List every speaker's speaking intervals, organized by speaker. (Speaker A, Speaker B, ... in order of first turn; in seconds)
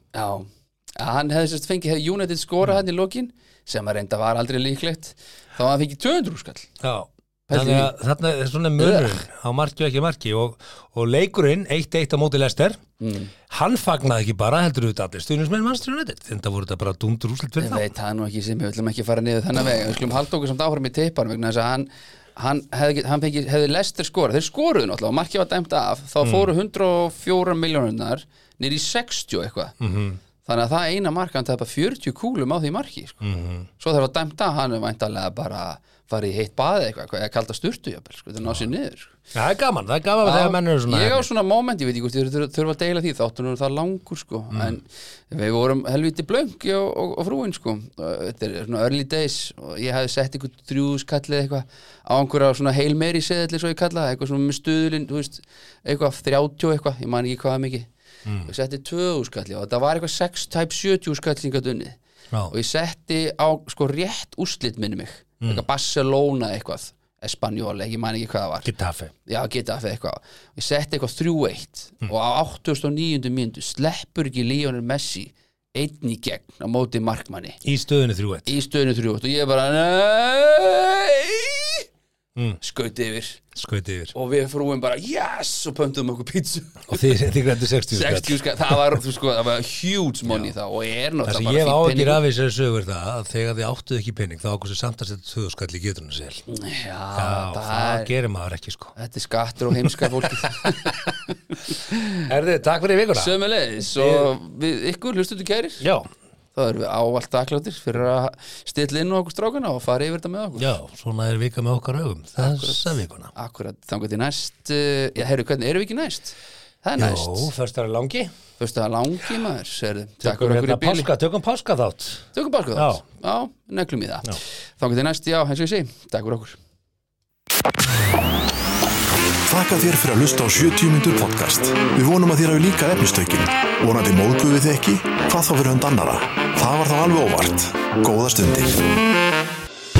Speaker A: 0.1-0.5, 1.0-6.7, 7.5-7.9, 8.8-9.2, 13.0-13.3, 17.6-29.8, 30.4-33.2, 33.8-39.2, 40.2-57.9, 58.4-62.0, 62.5-68.7, 69.2-77.6, 78.5-81.9, 82.6-83.4, 84.1-87.1, 87.9-92.2, 96.5-98.1, 98.9-102.3, 103.1-105.8, 106.5-110.7, 112.3-117.5, 118.6-121.1, 122.3-126.6
Speaker B: 6.8-12.8, 13.5-17.8, 26.2-26.5, 29.8-30.2, 33.2-33.7, 38.4-38.7, 39.3-41.3, 68.6-69.1, 77.6-78.5, 83.5-84.1, 86.9-88.9, 90.3-90.5, 91.2-96.4, 97.2-98.9, 99.8-100.9, 102.3-103.3, 104.0-104.3, 105.8-106.1, 110.5-113.3, 117.0-118.3, 120.2-123.0
Speaker C: 129.4-138.9